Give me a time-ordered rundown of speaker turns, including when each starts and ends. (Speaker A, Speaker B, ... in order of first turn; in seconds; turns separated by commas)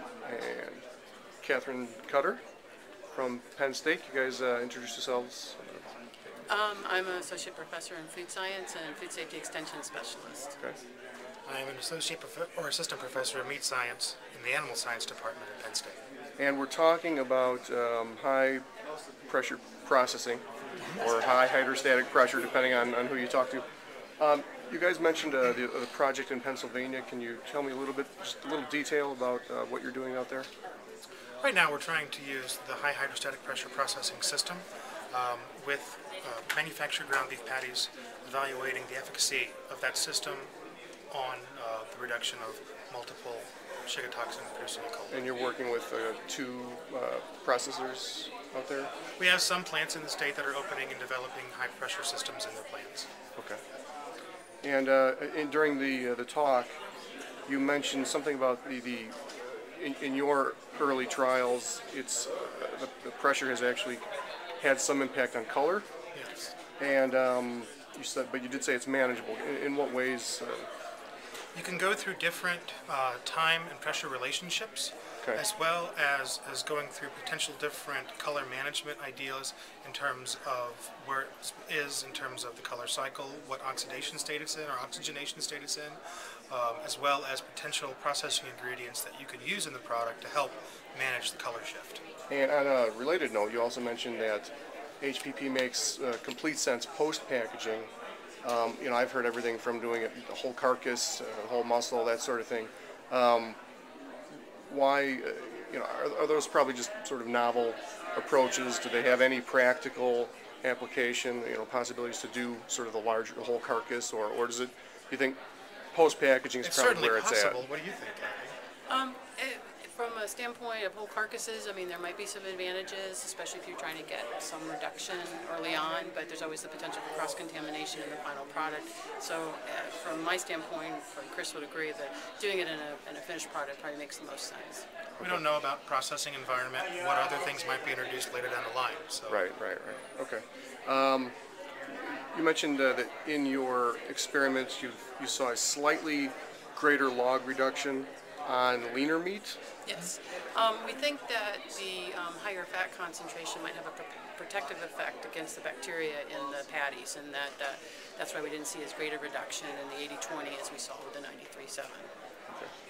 Speaker A: 0.2-0.9, Speaker A: 1.4-2.4, Speaker A: 3.1-5.9, Speaker B: 6.5-10.6, Speaker C: 11.5-16.0, Speaker A: 16.4-18.6, Speaker A: 19.3-23.7, Speaker A: 24.2-30.5, Speaker C: 31.4-40.5, Speaker C: 41.1-45.3, Speaker A: 45.1-48.9, Speaker C: 49.2-53.1, Speaker A: 53.4-53.6, Speaker A: 54.6-56.8, Speaker A: 57.5-64.0, Speaker A: 64.6-65.9, Speaker C: 66.1-66.5, Speaker A: 66.8-70.7, Speaker C: 71.5-92.0, Speaker A: 92.3-97.9, Speaker A: 98.4-103.6, Speaker A: 104.3-115.4, Speaker A: 115.9-117.6, Speaker C: 116.6-118.6, Speaker B: 118.9-134.9, Speaker C: 135.2-139.4, Speaker A: 139.3-149.6, Speaker B: 149.8-162.1